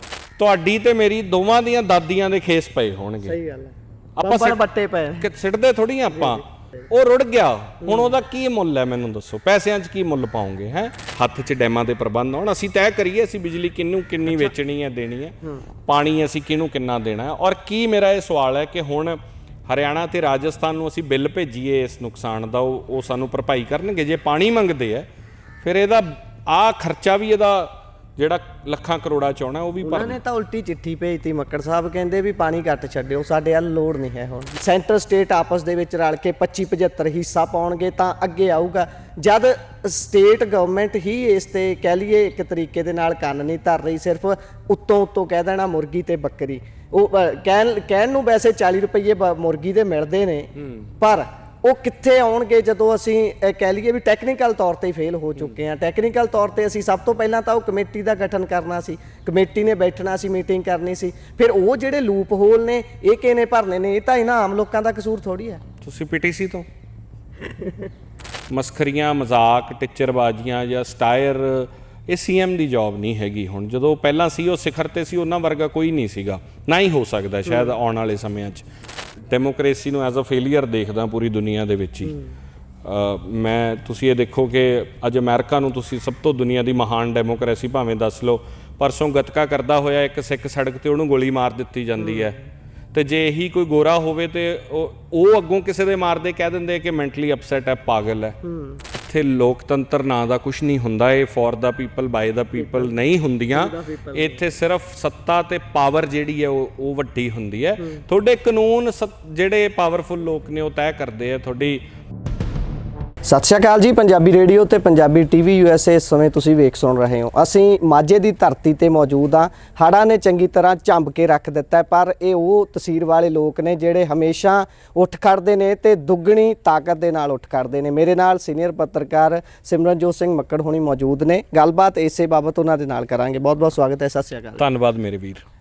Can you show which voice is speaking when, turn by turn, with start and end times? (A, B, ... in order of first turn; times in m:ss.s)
0:00.4-0:03.4 A
0:03.2-0:05.3 B
0:04.2-0:04.6 A
0:05.2-0:25.1 A
0:06.1-0:06.4 B
0:07.8-0:08.2 B
0:25.6-0:30.2 A
0:29.8-1:05.6 B
0:50.6-0:50.9 A
1:05.8-1:06.6 A
1:08.5-1:18.6 A
1:17.4-1:17.7 B
1:19.3-1:22.1 A
1:22.0-1:22.3 B
1:22.8-1:32.4 A
1:32.0-1:32.4 B
1:32.9-1:38.4 A
1:38.4-1:38.8 B
1:38.9-1:51.8 A
1:42.6-1:43.0 B
1:43.5-1:44.4 B
1:53.3-2:14.6 B
2:14.6-2:15.4 A